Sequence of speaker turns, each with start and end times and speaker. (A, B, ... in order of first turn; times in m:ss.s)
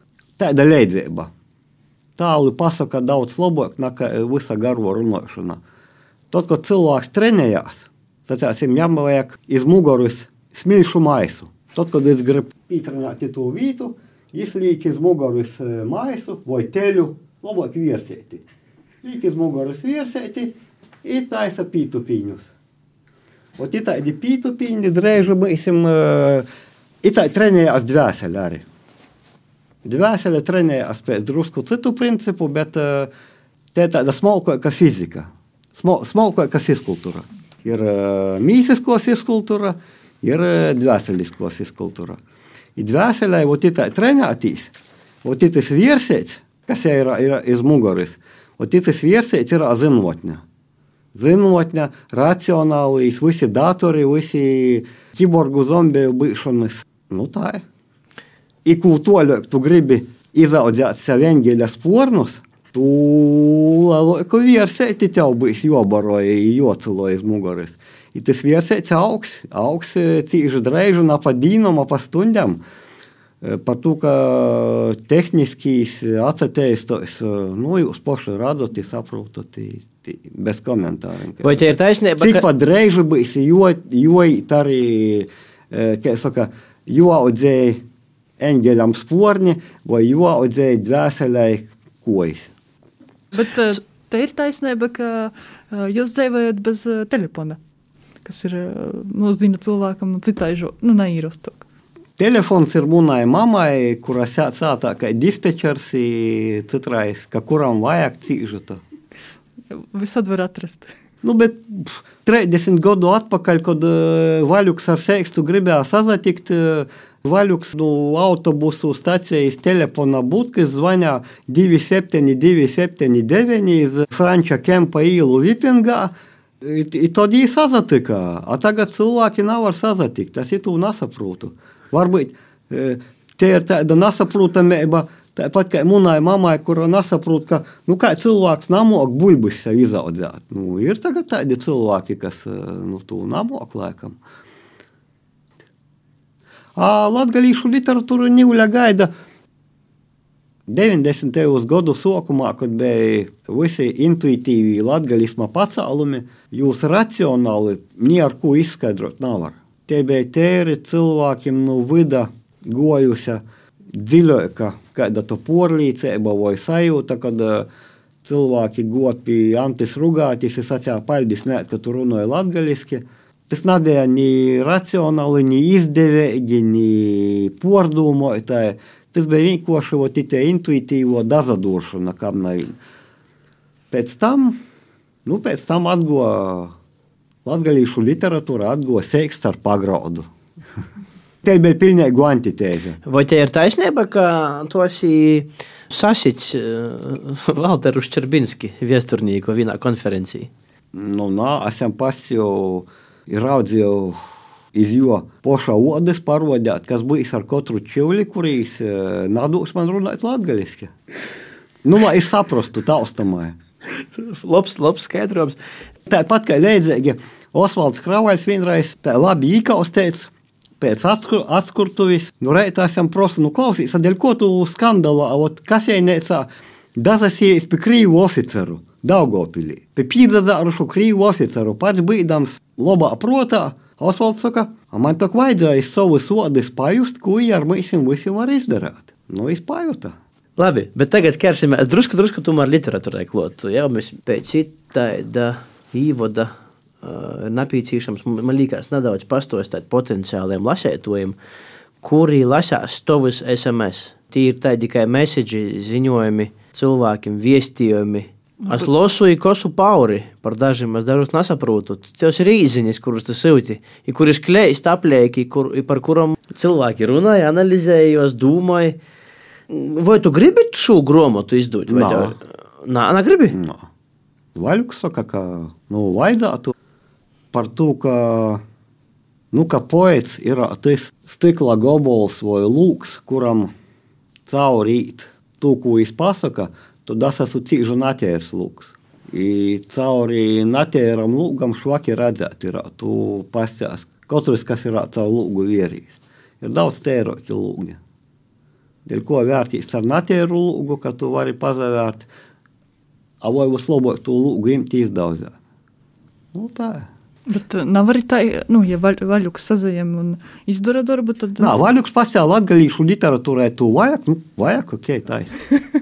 0:00.4-0:01.3 A
0:02.2-0:05.6 A
0:06.3-0:18.4 A
0:19.0-0:22.5 A
0:23.6-0:26.4 A
0:27.0-0:28.6 A
0:29.8-0:33.1 A
0:33.7-0:42.2 A
0:42.8-0:44.7 A
0:45.2-0:50.4 A
0:51.1-0:57.6 A
0:58.6-1:12.6 A
1:13.4-1:21.6 A
1:21.4-1:22.4 B
1:22.2-1:27.8 A
1:28.4-1:32.5 A
1:33.3-1:37.6 C
1:38.2-1:41.6 C
1:42.2-1:48.8 A
1:49.7-1:50.9 C
1:51.2-2:24.2 A
2:26.8-2:29.1 A
2:30.7-2:43.4 A
2:43.9-2:47.7 A
2:48.2-3:02.8 A
3:03.9-3:04.6 A
3:05.3-3:06.7 A
3:07.4-3:10.3 A
3:11.4-3:13.0 A
3:13.0-3:20.5 B
3:20.9-3:24.2 A
3:24.7-3:30.9 A
3:31.8-3:33.6 A
3:34.1-3:35.6 B
3:36.1-4:00.1 A
4:00.6-4:11.4 B
4:12.0-4:29.0 B
4:29.7-4:33.6 B
4:31.9-4:32.4 A
4:33.5-4:33.8 A
4:34.6-4:36.7 A
4:37.5-4:38.6 A
4:39.5-4:43.7 A
4:44.4-4:58.0 A
4:59.1-5:02.3 A
5:03.4-5:05.6 A
5:06.5-5:07.1 A
5:07.5-5:11.9 C
5:11.6-5:15.5 A